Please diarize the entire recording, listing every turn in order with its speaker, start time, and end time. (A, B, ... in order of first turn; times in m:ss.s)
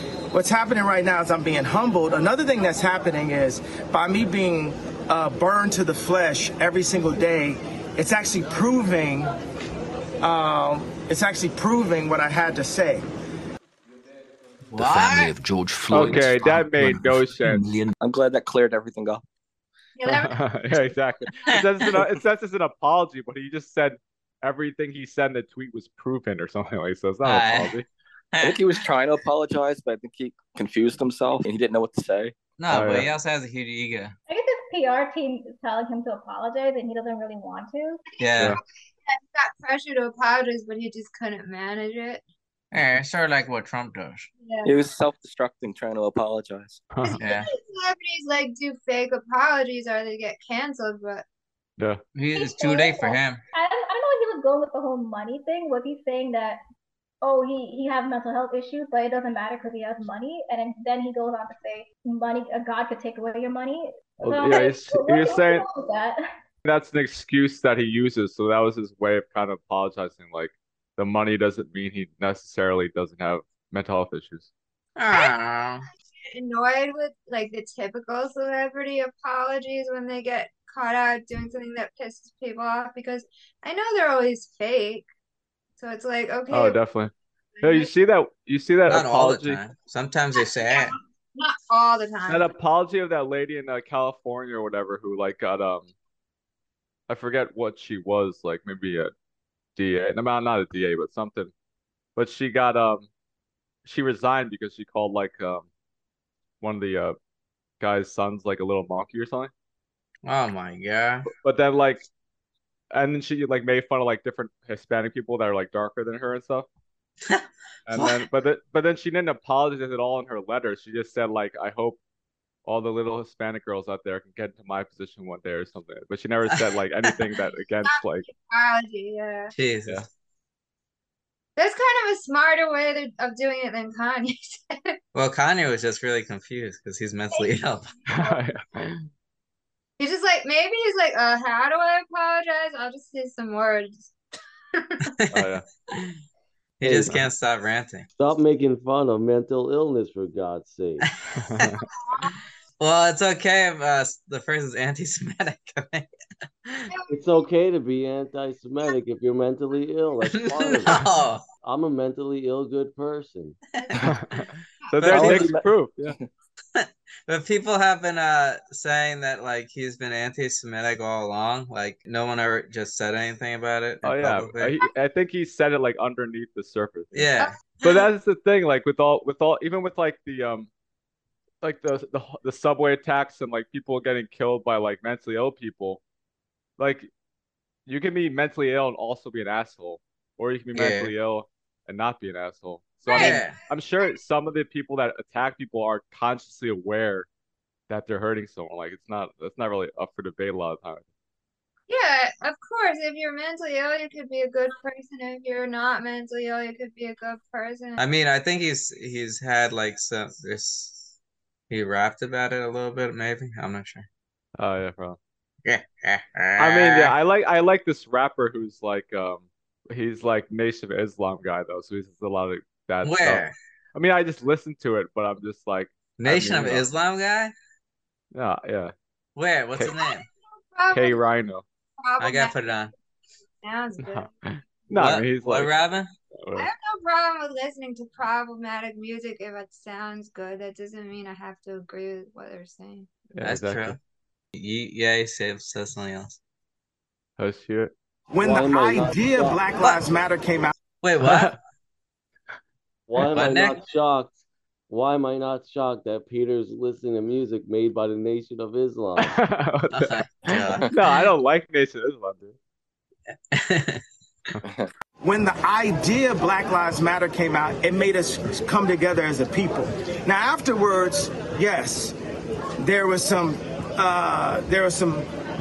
0:00.3-0:09.3 A
0:10.2-0:13.0 A
0:14.7-0:15.3 B
0:14.7-0:17.9 C
0:15.9-0:17.7 D
0:18.0-0:19.2 E
0:20.0-0:21.0 F
0:20.1-0:27.8 D
0:27.2-0:27.8 B
0:28.3-0:28.7 B
0:28.4-0:32.4 E
0:32.6-0:34.1 B
0:32.7-0:33.1 D
0:34.3-0:38.0 G
0:38.2-0:42.2 F
0:38.2-0:38.6 B
0:42.7-0:44.3 B
0:44.4-0:44.8 F
0:44.6-0:46.8 E
0:46.9-0:47.2 D
0:47.0-0:51.2 F
0:47.2-0:47.5 B
0:52.1-0:53.4 B
0:52.4-0:56.6 G
0:57.2-1:06.2 G
1:04.2-1:05.6 D
1:06.6-1:14.5 D
1:15.0-1:15.8 B
1:16.2-1:25.1 F
1:25.8-1:26.8 F
1:26.5-1:29.6 D
1:27.6-1:27.9 F
1:28.9-1:30.9 B
1:30.3-1:32.5 F
1:32.3-1:35.9 D
1:37.1-1:39.1 D
1:39.8-1:41.5 D
1:42.2-1:43.1 D
1:43.8-1:45.6 D
1:46.6-1:47.2 D
1:47.8-1:49.5 D
1:50.2-1:51.3 B
1:51.3-1:52.0 D
1:52.9-1:56.7 D
1:57.3-1:58.2 B
1:57.9-2:02.0 D
2:02.6-2:08.3 D
2:07.8-2:09.5 F
2:09.5-2:10.0 B
2:11.6-2:15.0 F
2:15.1-2:17.9 B
2:18.1-2:19.0 D
2:20.0-2:24.1 F
2:24.7-2:25.0 F
2:25.2-2:26.2 B
2:25.3-2:25.6 D
2:26.8-2:28.1 B
2:26.8-2:27.2 H
2:28.2-2:31.0 H
2:31.4-2:31.8 D
2:31.9-2:32.4 F
2:32.8-2:36.1 B
2:36.9-2:37.2 F
2:37.1-2:41.0 H
2:40.3-2:41.4 B
2:41.6-2:43.6 H
2:43.8-2:44.1 F
2:43.8-2:44.0 B
2:44.0-2:46.1 D
2:45.0-2:45.6 B
2:45.1-2:46.3 E
2:46.7-2:54.8 B
2:54.0-2:57.2 D
2:57.1-2:57.8 B
2:57.8-3:00.7 D
3:01.6-3:06.0 D
3:06.8-3:07.1 D
3:07.8-3:17.3 D
3:10.7-3:11.1 B
3:13.1-3:13.6 F
3:13.1-3:13.6 B
3:17.9-3:21.0 D
3:21.9-3:28.0 F
3:28.0-3:31.1 B
3:31.7-3:34.1 B
3:34.6-3:35.2 D
3:35.6-3:37.2 B
3:36.6-3:43.4 D
3:43.0-3:43.6 B
3:43.9-3:46.9 D
3:46.2-3:47.5 B
3:48.3-3:48.9 D
3:49.4-3:50.3 B
3:49.9-3:51.2 F
3:50.9-3:51.6 D
3:52.0-3:52.6 F
3:52.2-3:52.9 B
3:53.6-3:54.3 F
3:54.0-3:55.7 D
3:54.9-3:56.1 B
3:56.4-3:56.7 D
3:56.5-4:03.1 F
4:03.3-4:04.0 D
4:03.4-4:04.0 B
4:04.5-4:06.4 B
4:07.4-4:07.9 D
4:08.3-4:10.7 A
4:08.4-4:09.6 H
4:11.0-4:11.6 B
4:11.2-4:11.6 D
4:13.1-4:14.4 H
4:13.3-4:13.8 B
4:14.9-4:19.4 H
4:19.2-4:22.6 D
4:19.9-4:20.9 B
4:23.5-4:24.0 B
4:24.6-4:24.9 E
4:25.2-4:32.2 A
4:32.8-4:35.3 A